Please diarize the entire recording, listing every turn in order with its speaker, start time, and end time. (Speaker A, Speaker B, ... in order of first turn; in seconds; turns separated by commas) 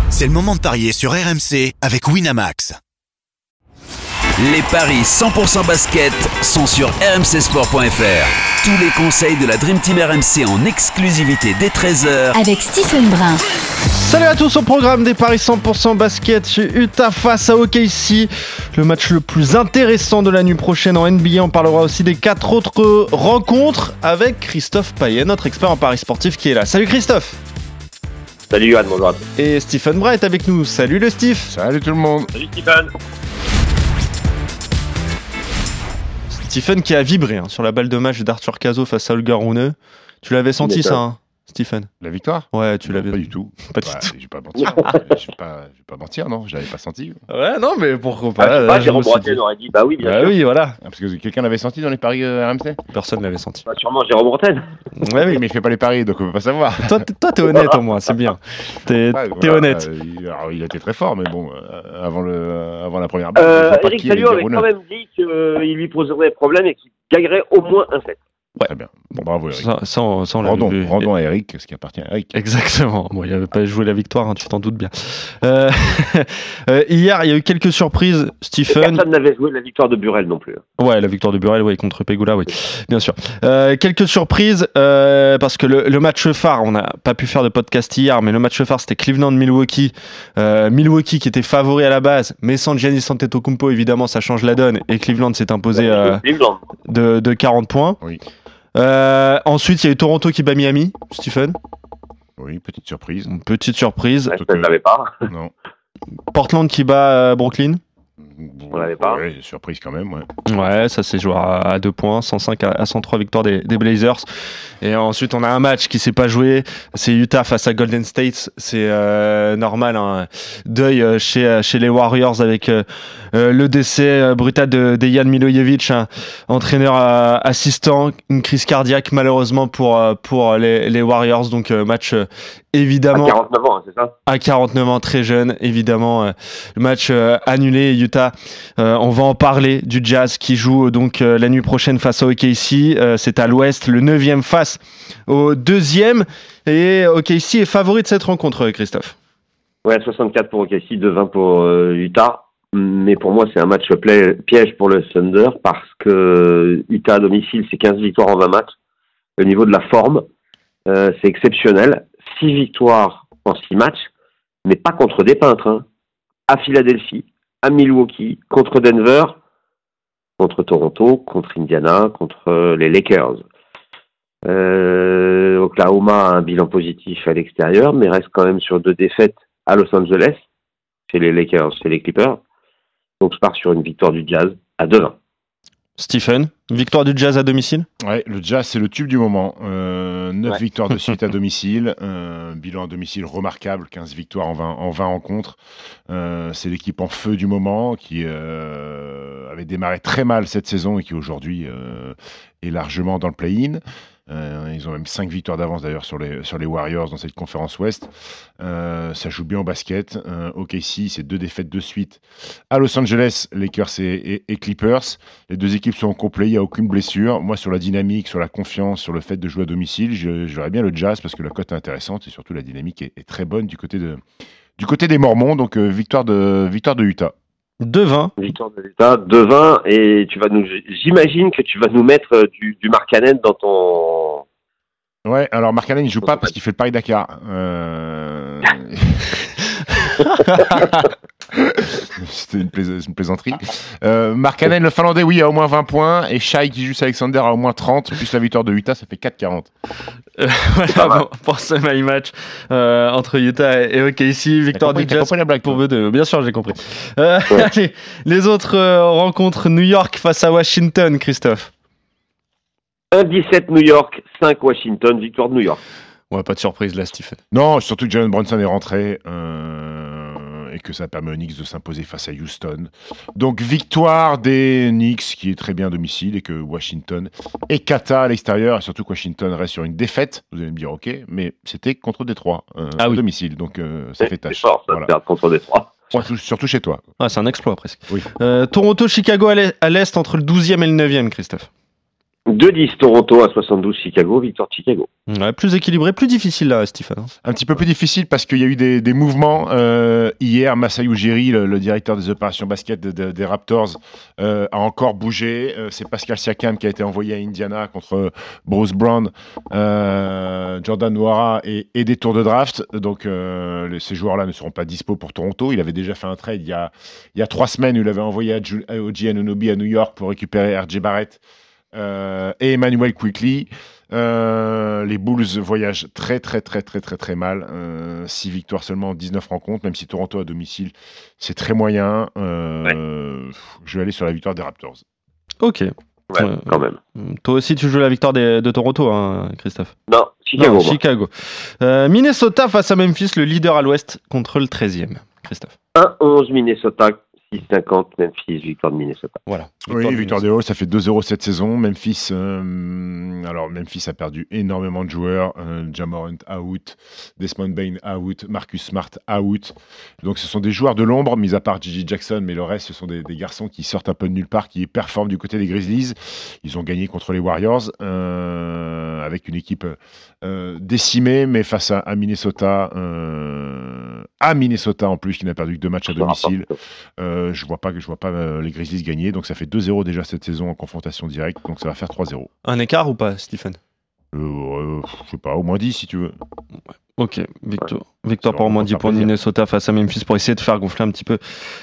Speaker A: 0.1-2.8, Speaker B: 4.4-13.4, Speaker C: 13.9-27.4, Speaker D: 28.5-29.2, Speaker C: 29.4-31.5, Speaker E: 31.5-32.3, Speaker D: 32.4-32.9, Speaker C: 36.3-41.9, Speaker D: 40.6-41.0, Speaker E: 42.0-47.2, Speaker C: 42.5-44.1, Speaker D: 44.6-45.0, Speaker C: 47.3-49.4, Speaker D: 48.4-50.4, Speaker C: 50.0-50.8, Speaker E: 50.8-52.8, Speaker C: 52.9-53.6, Speaker D: 53.7-54.7, Speaker C: 55.0-55.4, Speaker E: 55.2-57.1, Speaker C: 56.8-59.9, Speaker E: 59.1-64.7, Speaker D: 63.4-68.2, Speaker E: 68.7-69.7, Speaker C: 69.5-71.1, Speaker E: 70.4-72.3, Speaker C: 72.3-79.0, Speaker D: 78.7-80.6, Speaker C: 80.8-96.2, Speaker D: 95.8-96.6, Speaker C: 96.9-98.0, Speaker C: 98.8-101.6, Speaker E: 102.4-103.3, Speaker C: 103.3-104.3, Speaker D: 104.3-105.1, Speaker E: 104.3-104.7, Speaker E: 105.3-105.5, Speaker C: 106.3-107.8, Speaker E: 108.2-110.3, Speaker D: 108.7-109.2, Speaker C: 110.5-114.2, Speaker C: 114.8-133.4, Speaker D: 133.1-134.1, Speaker C: 134.3-149.2, Speaker D: 149.8-158.7, Speaker D: 159.4-160.2, Speaker D: 160.9-164.0, Speaker D: 164.7-165.8, Speaker D: 166.5-169.4, Speaker D: 170.4-173.4, Speaker D: 174.5-180.4, Speaker D: 181.1-182.4, Speaker D: 183.2-185.2, Speaker C: 186.0-187.9, Speaker E: 188.0-195.6, Speaker E: 196.1-208.1, Speaker E: 208.6-224.2, Speaker E: 224.8-227.3, Speaker C: 227.8-228.3, Speaker D: 228.4-234.4, Speaker E: 235.2-239.4, Speaker E: 240.6-241.0, Speaker E: 241.5-249.7, Speaker C: 250.4-261.7, Speaker D: 250.9-251.2, Speaker E: 254.7-255.8, Speaker D: 263.1-265.8, Speaker C: 266.3-267.4, Speaker E: 267.5-285.1, Speaker D: 284.2-285.9, Speaker E: 286.1-287.1, Speaker C: 287.2-291.7, Speaker D: 292.5-295.1, Speaker C: 295.3-297.3, Speaker E: 297.4-321.4, Speaker E: 321.9-335.0, Speaker C: 335.6-339.9, Speaker D: 336.3-337.0, Speaker D: 340.1-341.0, Speaker C: 340.6-345.7, Speaker D: 345.9-349.4, Speaker C: 349.5-350.4, Speaker E: 349.9-382.5, Speaker D: 376.2-376.6, Speaker C: 382.6-383.8, Speaker E: 384.3-386.3, Speaker C: 387.2-391.4, Speaker E: 388.4-389.3